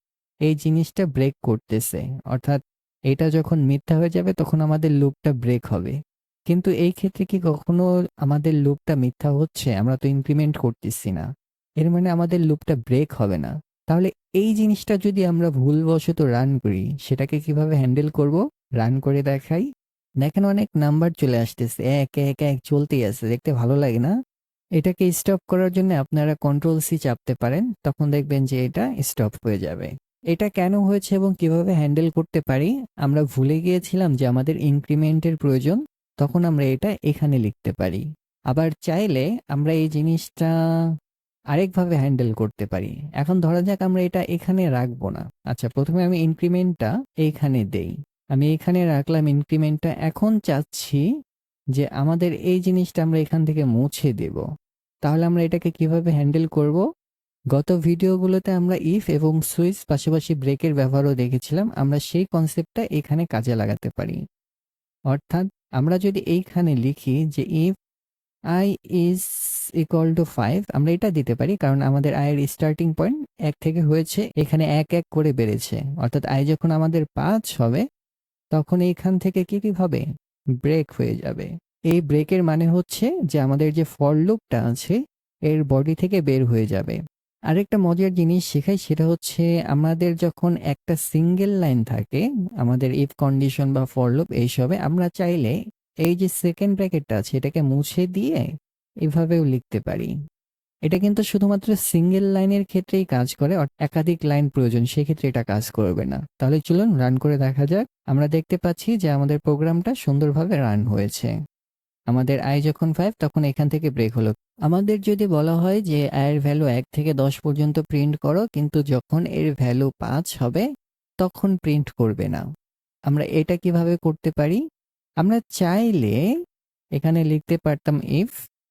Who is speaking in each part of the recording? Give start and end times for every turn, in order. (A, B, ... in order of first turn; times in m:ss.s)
0:00.5-0:02.6 A
0:03.1-0:06.0 A
0:06.5-0:11.2 A
0:11.8-0:19.7 A
0:20.2-0:24.1 A
0:24.8-0:40.5 A
0:41.5-0:51.0 A
0:51.7-0:54.4 A
0:55.0-0:56.8 A
0:57.5-1:04.2 A
1:05.1-1:07.7 A
1:08.5-1:09.2 A
1:09.8-1:17.8 A
1:18.5-1:20.0 A
1:20.6-1:25.0 A
1:25.5-1:27.0 A
1:27.5-1:38.5 A
1:39.0-1:40.1 A
1:40.9-1:51.3 A
1:52.1-2:00.6 A
2:01.2-2:02.4 A
2:03.1-2:04.6 A
2:05.2-2:06.2 A
2:07.0-2:08.3 A